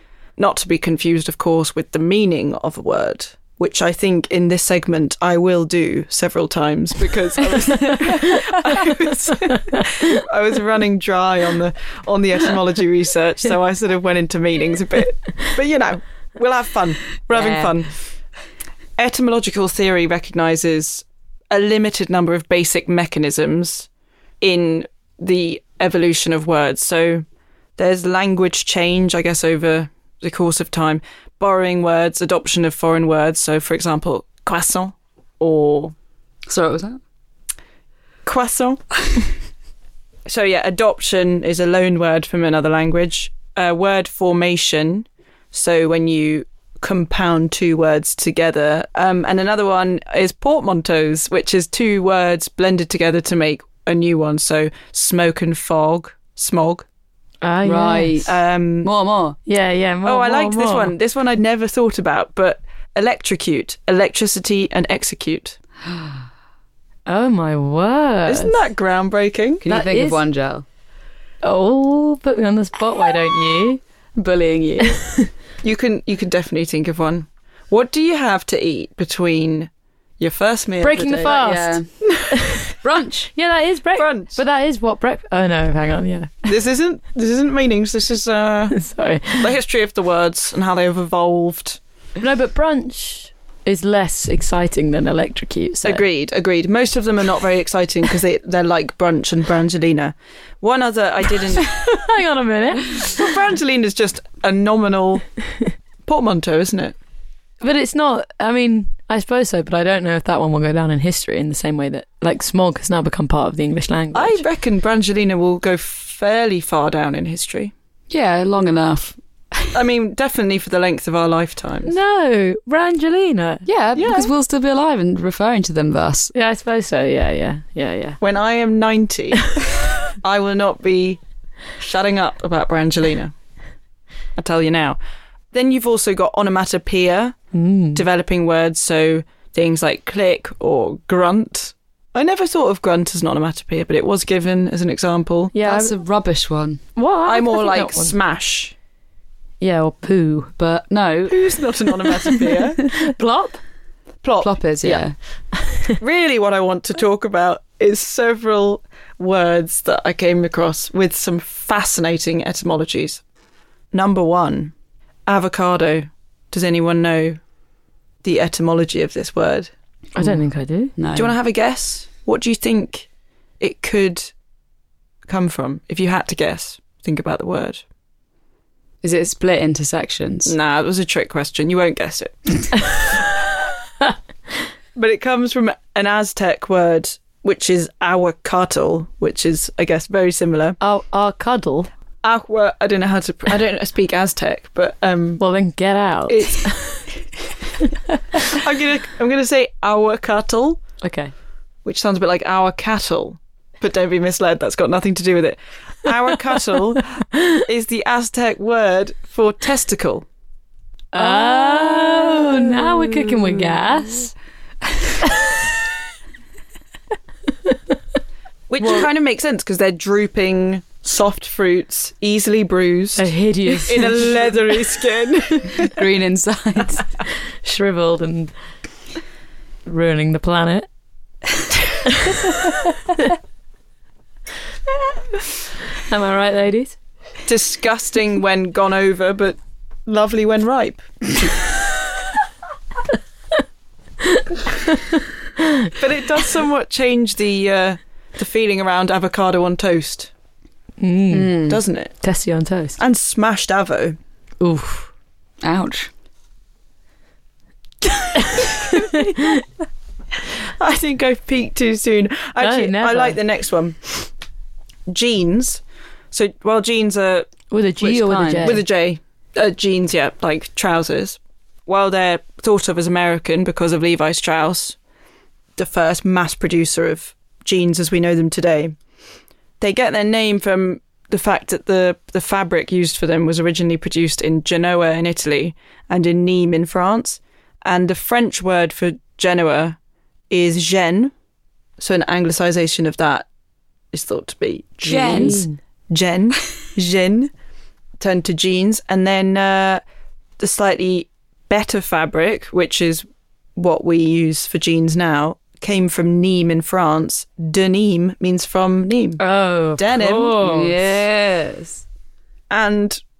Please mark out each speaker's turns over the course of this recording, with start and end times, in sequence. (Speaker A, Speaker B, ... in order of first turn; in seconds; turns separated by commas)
Speaker A: 0.4-17.9, Speaker B: 17.3-17.7, Speaker A: 19.0-23.9, Speaker A: 24.4-27.2, Speaker A: 27.8-35.9, Speaker B: 36.5-37.0, Speaker A: 38.2-39.3, Speaker A: 40.2-56.9, Speaker C: 57.4-58.3, Speaker B: 57.6-59.4, Speaker A: 58.2-58.9, Speaker C: 59.5-60.9, Speaker A: 60.0-65.6, Speaker C: 67.0-68.6, Speaker A: 68.3-69.6, Speaker B: 69.6-70.6, Speaker C: 69.7-70.2, Speaker C: 71.4-73.8, Speaker B: 74.2-75.0, Speaker C: 74.9-75.3, Speaker A: 75.6-81.4, Speaker C: 80.8-81.8, Speaker B: 81.0-82.0, Speaker C: 82.3-82.7, Speaker B: 82.8-83.3, Speaker C: 83.3-86.5, Speaker A: 84.0-84.4, Speaker A: 86.5-88.8, Speaker C: 88.7-89.5, Speaker A: 89.3-91.8, Speaker C: 92.2-96.0, Speaker A: 95.8-101.7, Speaker C: 101.6-103.3, Speaker A: 103.0-105.2, Speaker A: 106.0-107.0, Speaker C: 107.6-114.4, Speaker A: 114.1-117.7, Speaker B: 118.1-119.7, Speaker A: 119.7-121.9, Speaker C: 121.8-123.7, Speaker B: 123.7-126.3, Speaker A: 124.0-124.3, Speaker C: 126.3-128.2, Speaker A: 128.2-131.2, Speaker A: 131.8-133.3, Speaker A: 134.4-135.0, Speaker A: 135.5-137.4, Speaker C: 137.5-138.0, Speaker A: 137.9-145.5, Speaker C: 145.5-146.0, Speaker B: 145.6-146.8, Speaker C: 146.9-148.1, Speaker A: 147.2-148.7, Speaker C: 149.6-150.5, Speaker B: 150.6-151.4, Speaker A: 151.3-152.9, Speaker C: 152.8-153.6, Speaker A: 154.2-155.0, Speaker B: 154.4-155.1, Speaker A: 156.0-163.2, Speaker A: 163.9-164.7, Speaker A: 165.3-167.4, Speaker A: 168.2-169.7, Speaker C: 170.2-170.9, Speaker B: 170.9-171.3, Speaker A: 171.1-173.1, Speaker A: 173.6-174.3, Speaker A: 175.2-177.8, Speaker B: 179.0-180.5, Speaker A: 180.4-183.1, Speaker A: 184.9-190.8, Speaker C: 190.8-191.9, Speaker A: 192.2-195.4, Speaker C: 195.4-197.0, Speaker A: 196.3-196.8, Speaker A: 198.4-200.8, Speaker C: 201.0-201.3, Speaker A: 201.8-210.2, Speaker C: 211.1-214.3, Speaker B: 211.2-212.7, Speaker A: 218.7-226.0, Speaker C: 223.2-224.4, Speaker B: 225.7-227.0, Speaker C: 227.6-228.5, Speaker C: 229.8-230.9, Speaker C: 232.0-233.3, Speaker C: 236.1-237.0, Speaker A: 237.4-241.5, Speaker C: 244.2-245.9, Speaker A: 246.0-250.3, Speaker C: 251.0-251.6, Speaker B: 251.3-251.8, Speaker A: 251.7-252.2, Speaker C: 252.2-253.0, Speaker A: 253.0-254.2, Speaker C: 254.6-255.1, Speaker B: 255.6-256.1, Speaker A: 258.2-259.3, Speaker C: 258.4-259.6, Speaker A: 260.4-264.3, Speaker C: 262.6-263.4, Speaker A: 265.1-267.5, Speaker C: 267.7-268.8, Speaker B: 268.0-268.8, Speaker A: 268.6-275.0, Speaker A: 275.8-278.9, Speaker A: 279.8-290.0, Speaker A: 290.5-291.3, Speaker A: 292.0-293.5, Speaker A: 294.1-297.5, Speaker B: 295.1-295.6, Speaker C: 295.1-295.8, Speaker A: 298.2-300.0, Speaker A: 300.6-309.4, Speaker C: 309.4-311.1, Speaker A: 310.0-310.6, Speaker B: 310.6-312.0, Speaker A: 312.7-313.2